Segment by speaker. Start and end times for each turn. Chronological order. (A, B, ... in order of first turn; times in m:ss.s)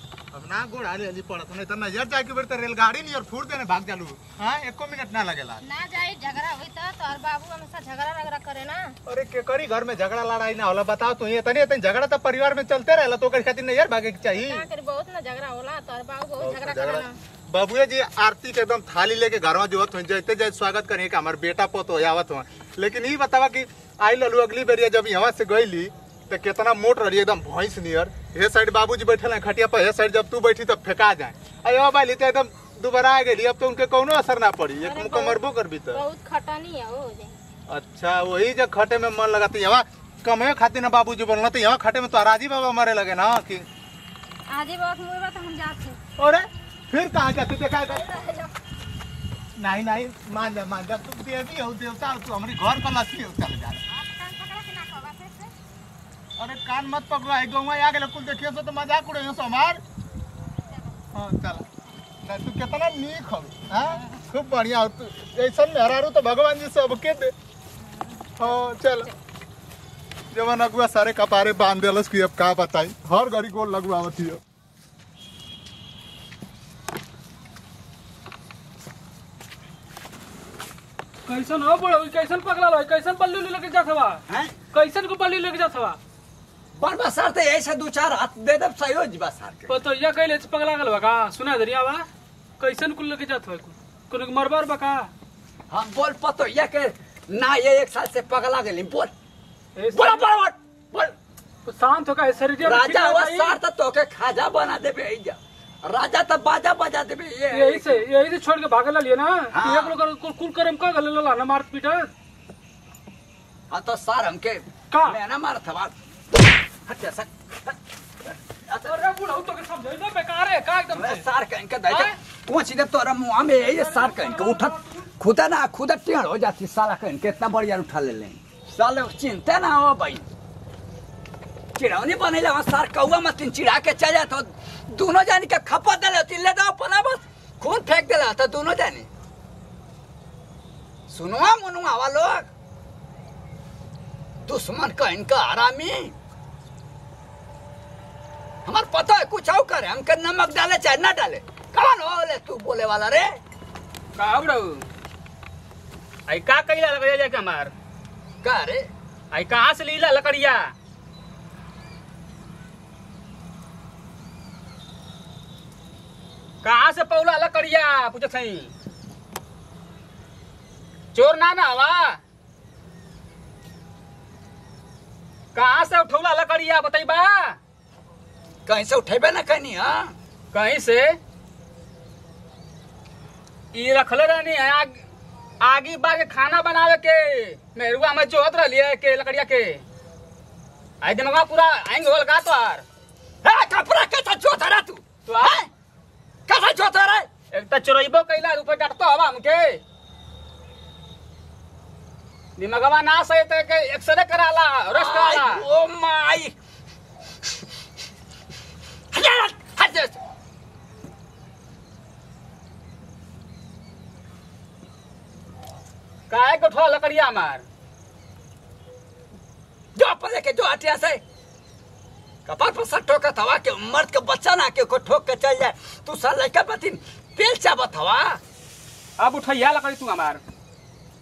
0:00.3-0:05.6 A
0:05.6-0:09.0 B
0:09.0-0:14.6 A
0:14.3-0:17.2 B
0:16.4-0:36.0 A
0:34.8-0:35.4 B
0:35.9-0:37.4 B
0:37.7-0:43.6 A
0:44.5-0:46.0 B
0:46.2-0:48.2 A
0:48.1-0:48.5 B
0:49.6-0:53.8 A
0:54.0-0:55.5 B
0:56.4-0:59.8 A
1:01.1-1:01.7 A
1:02.2-1:07.3 A
1:08.0-1:08.3 B
1:08.4-1:09.1 A
1:10.3-1:14.4 A
1:21.3-1:24.2 C
1:24.3-1:24.6 D
1:24.7-1:26.0 C
1:26.8-1:29.8 D
1:29.7-1:32.0 C
1:32.6-1:35.1 C
1:35.7-1:39.1 D
1:39.8-1:40.3 C
1:39.9-1:41.1 D
1:41.6-1:43.5 C
1:42.6-1:48.1 D
1:47.5-1:52.1 C
1:49.5-1:50.0 D
1:53.7-1:55.9 D
1:54.9-1:55.2 C
1:56.8-1:57.8 D
1:58.5-1:59.0 D
1:58.9-2:01.2 C
2:00.9-2:10.2 D
2:01.8-2:02.1 C
2:03.7-2:05.0 C
2:11.8-2:19.1 D
2:21.1-2:22.5 D
2:24.4-2:26.1 D
2:28.6-2:33.4 D
2:34.2-2:34.8 E
2:36.3-2:37.7 E
2:38.4-2:38.9 D
2:39.3-2:40.7 E
2:46.6-2:48.7 E
2:51.1-2:52.2 E
2:55.5-2:57.6 E
2:58.6-3:00.1 D
3:00.5-3:01.2 E
3:03.7-3:04.9 E
3:05.6-3:09.8 E
3:11.0-3:12.8 E
3:13.4-3:15.7 D
3:15.3-3:15.6 E
3:16.5-3:17.3 D
3:17.5-3:19.8 E
3:22.6-3:25.6 E
3:24.9-3:26.5 D
3:29.1-3:30.2 D
3:36.3-3:37.6 E
3:39.9-3:41.2 D
3:42.4-3:48.4 D
3:49.2-3:50.4 E